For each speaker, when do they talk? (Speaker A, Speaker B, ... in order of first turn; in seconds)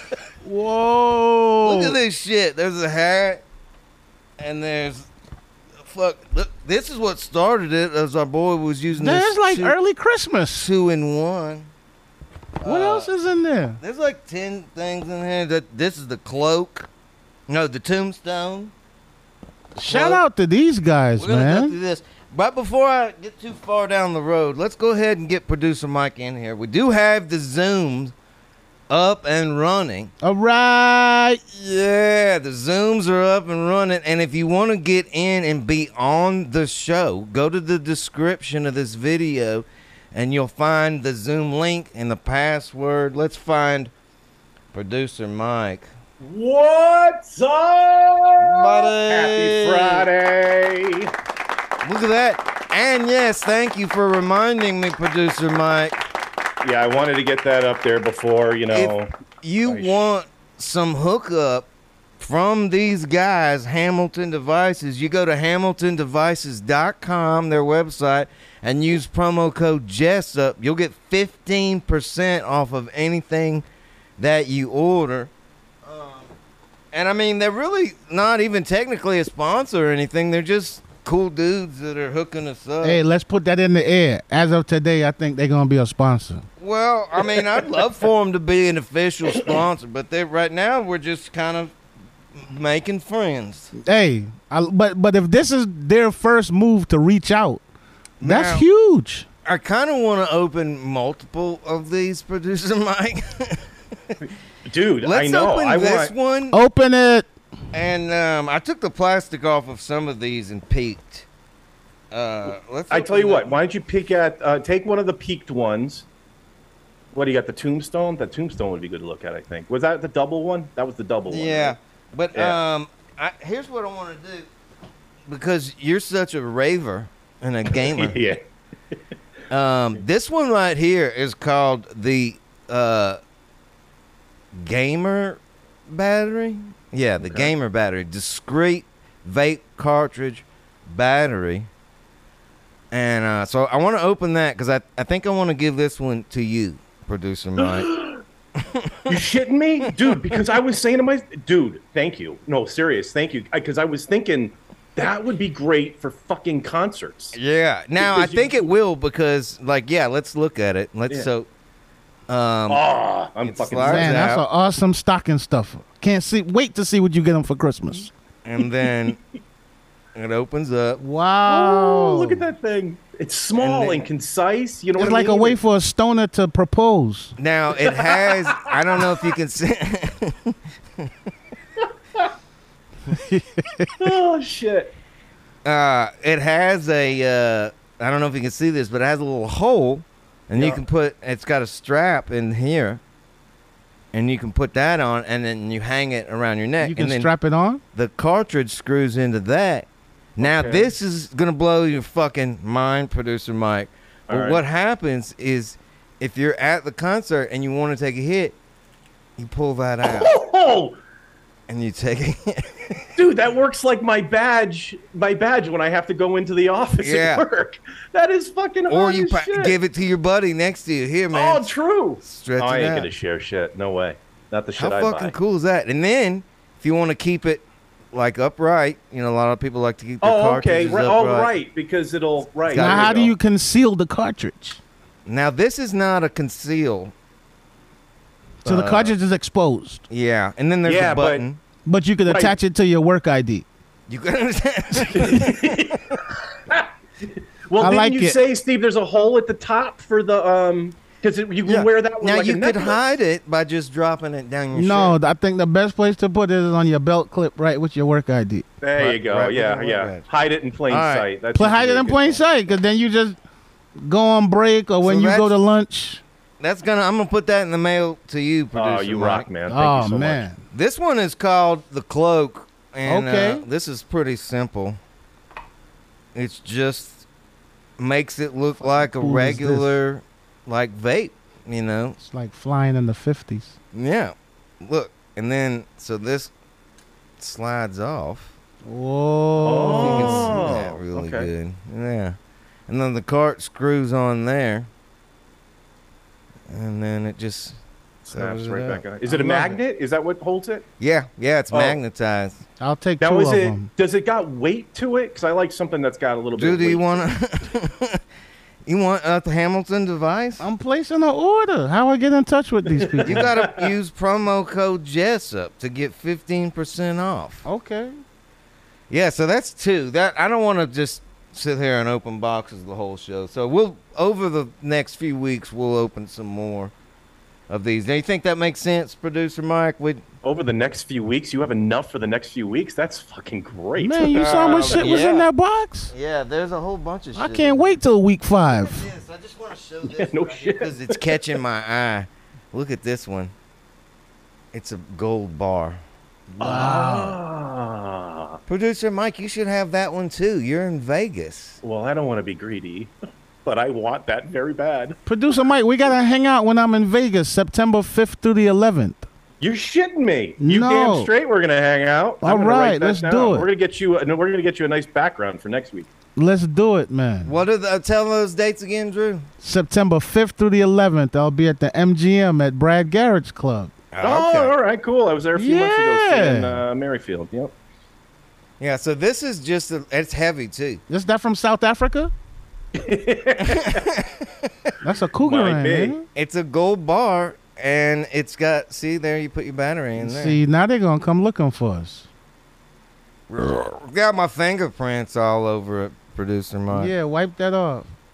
Speaker A: 0.4-2.0, 8.9-10.7, 12.6-13.8, 19.8-21.7, 30.2-31.4, 82.8-86.5, 93.8-97.6, 98.2-99.3, 106.5-107.3, 163.8-168.1, 171.0-172.4, 175.0-177.3, 183.1-183.9, 196.8-197.8, 232.7-234.8, 238.6-240.0, 241.8-243.7, 247.8-248.4, 254.7-258.6, 261.5-263.4, 264.0-266.2, 269.7-270.6, 273.1-273.6, 278.8-280.0, 282.2-283.8, 288.8-290.6, 299.3-299.7, 302.8-303.9, 310.6-313.4, 317.6-318.1, 334.0-336.1, 337.4-339.1, 346.5-347.4, 355.2-359.2, 360.6-361.3, 362.4-363.7, 366.4-367.6, 369.6-373.9, 375.5-376.8, 381.1-382.3, 385.0-386.2, 390.2-392.3, 396.9-398.1
Speaker B: 1.6-3.4, 4.4-5.1, 5.8-9.7, 10.5-11.7, 12.6-13.1, 13.8-16.9, 17.5-18.7, 19.9-20.2, 21.1-28.1, 28.9-30.1, 31.5-43.9, 44.7-45.9, 48.4-50.1, 51.8-56.1, 58.7-73.6, 74.2-75.3, 75.8-76.3, 76.9-83.0, 86.6-91.7, 92.3-93.7, 98.2-98.7, 99.4-104.2, 105.0-106.5, 107.7-111.2, 112.1-113.6, 121.3-124.5, 125.3-128.2, 129.5-133.2, 134.5-141.7, 142.9-147.9, 148.6-149.1, 157.3-161.5, 162.3-162.8, 163.4-164.4, 168.4-169.2, 170.1-171.0, 173.6-174.1, 177.4-181.1, 185.6-193.0, 194.1-197.3, 197.9-208.6, 209.4-210.3, 211.7-213.1, 217.0-217.4, 218.9-223.1, 224.7-231.5, 232.6-233.3, 235.2-237.1, 238.6-239.1, 240.1-241.6, 244.1-245.9, 251.6-255.2, 259.0-260.2, 260.9-261.3, 265.0-265.5, 266.6-269.5, 270.7-275.0, 276.3-277.2, 278.0-282.2, 283.9-286.5, 287.4-288.5, 289.8-292.4, 292.9-294.9, 296.7-299.8, 301.0-302.6, 306.6-308.2, 308.9-310.6, 313.2-317.6, 319.1-326.9, 327.7-330.2, 334.3-335.5, 336.1-337.9, 338.7-343.5, 344.7-346.0, 348.7-351.8, 367.4-369.5, 374.1-374.7, 378.8-381.0, 383.7-384.4, 386.3-390.6, 393.5-397.1
Speaker C: 46.2-51.1, 56.6-59.1, 59.6-60.0, 104.7-106.1, 112.9-116.0, 117.1-121.8, 122.3-122.6, 127.7-128.4, 137.2-137.5, 147.6-148.1, 149.1-157.4, 158.0-158.7, 162.7-164.3, 171.4-175.6, 177.8-179.2, 184.0-184.9, 190.6-190.8, 200.4-200.9, 204.3-204.6, 210.0-211.0, 213.2-219.8, 221.3-225.3, 230.2-233.3, 240.8-241.4, 242.3-242.6, 245.0-253.0, 258.8-262.4, 268.7-270.4, 289.6-291.5, 298.2-300.9, 301.7-302.0, 303.2-307.2, 313.0-313.9, 330.4-335.1, 340.0-341.2, 346.6-348.6, 351.8-353.1, 353.6-355.2, 359.6-366.1, 374.2-377.7, 382.9-384.0, 385.4-386.1